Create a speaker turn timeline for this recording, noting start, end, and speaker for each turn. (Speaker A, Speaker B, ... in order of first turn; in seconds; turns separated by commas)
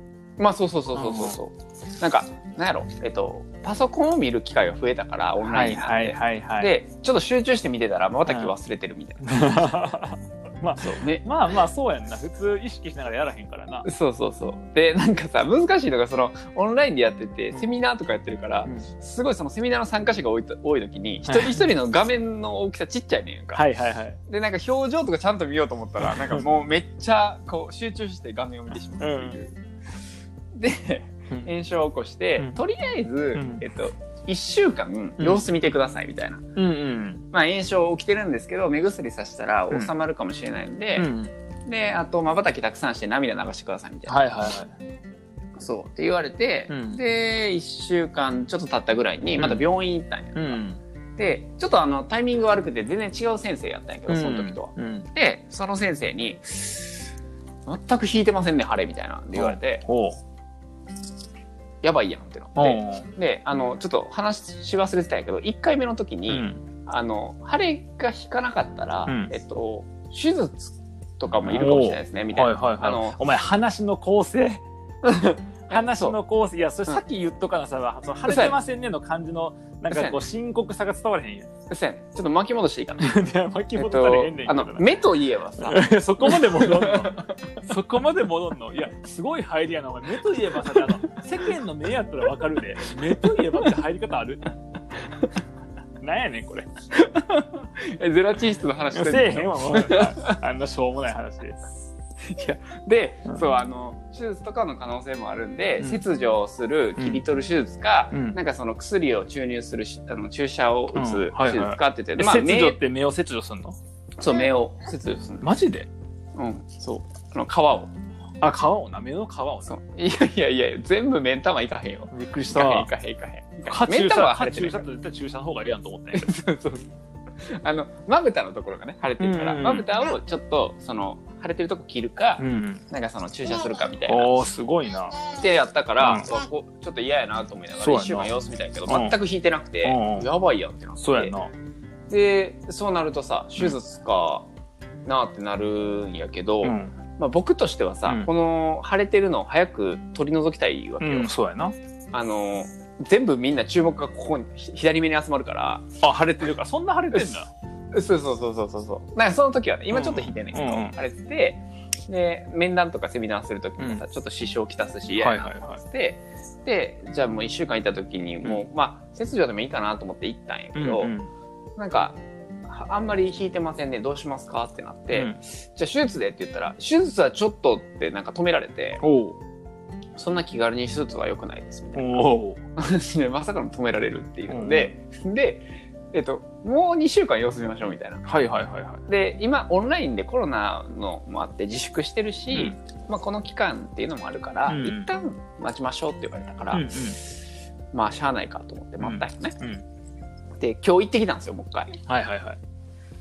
Speaker A: 0.4-9.7, Speaker B: 0.9-1.4, Speaker B: 5.4-6.7, Speaker B: 8.3-8.5, Speaker B: 9.2-13.8, Speaker A: 10.8-11.3, Speaker A: 13.8-23.6, Speaker B: 21.3-21.6, Speaker B: 23.5-24.2, Speaker A: 24.3-29.6, Speaker B: 29.0-29.4, Speaker A: 30.6-36.5, Speaker B: 33.3-33.6, Speaker B: 35.2-35.5, Speaker B: 36.5-37.2, Speaker A: 37.3-41.1, Speaker B: 41.0-41.3, Speaker A: 41.6-44.2, Speaker B: 44.1-44.7, Speaker A: 45.6-50.6, Speaker B: 46.7-47.0, Speaker B: 49.4-49.6, Speaker B: 50.3-50.8, Speaker A: 51.2-56.9, Speaker B: 54.1-55.1, Speaker A: 57.7-59.8, Speaker B: 59.3-60.2, Speaker A: 61.8-73.2, Speaker B: 62.5-63.0, Speaker B: 66.3-66.6, Speaker B: 69.1-69.3, Speaker B: 71.5-74.6, Speaker A: 75.0-76.2, Speaker B: 75.7-81.5, Speaker A: 78.2-78.6, Speaker A: 79.9-80.2, Speaker A: 81.7-83.2, Speaker B: 83.0-84.9, Speaker A: 83.7-87.3, Speaker B: 85.6-94.5, Speaker B: 96.0-96.7, Speaker A: 96.9-100.3, Speaker B: 98.9-101.7, Speaker A: 102.3-112.8, Speaker B: 105.8-106.0, Speaker B: 107.0-107.2, Speaker B: 108.1-108.4, Speaker B: 110.9-113.8, Speaker A: 114.2-115.5, Speaker B: 115.0-115.9, Speaker A: 116.3-117.9, Speaker B: 118.4-119.7, Speaker A: 119.7-124.8, Speaker B: 122.1-122.9, Speaker B: 123.6-126.3, Speaker A: 126.1-126.9, Speaker A: 127.4-134.3, Speaker B: 129.2-129.8, Speaker B: 132.4-132.8, Speaker B: 134.1-135.2, Speaker A: 135.2-141.3, Speaker B: 137.8-138.3, Speaker B: 138.9-139.1, Speaker B: 139.8-140.3, Speaker B: 141.0-141.5, Speaker A: 142.1-144.5, Speaker A: 145.1-151.3, Speaker B: 146.6-146.9, Speaker B: 151.0-151.7, Speaker A: 152.1-155.9, Speaker B: 156.0-157.5, Speaker A: 157.1-157.4, Speaker A: 157.9-171.1, Speaker B: 159.9-161.0, Speaker B: 165.2-165.8, Speaker B: 170.7-171.3, Speaker A: 171.8-179.0, Speaker B: 175.1-175.4, Speaker B: 179.0-179.4, Speaker A: 180.2-188.2, Speaker B: 181.9-182.6, Speaker B: 184.5-184.9, Speaker B: 188.2-189.0, Speaker A: 189.1-196.9, Speaker B: 194.7-195.1, Speaker B: 196.7-197.2, Speaker A: 197.9-199.6, Speaker B: 199.0-199.8, Speaker A: 200.6-201.9, Speaker B: 202.1-202.6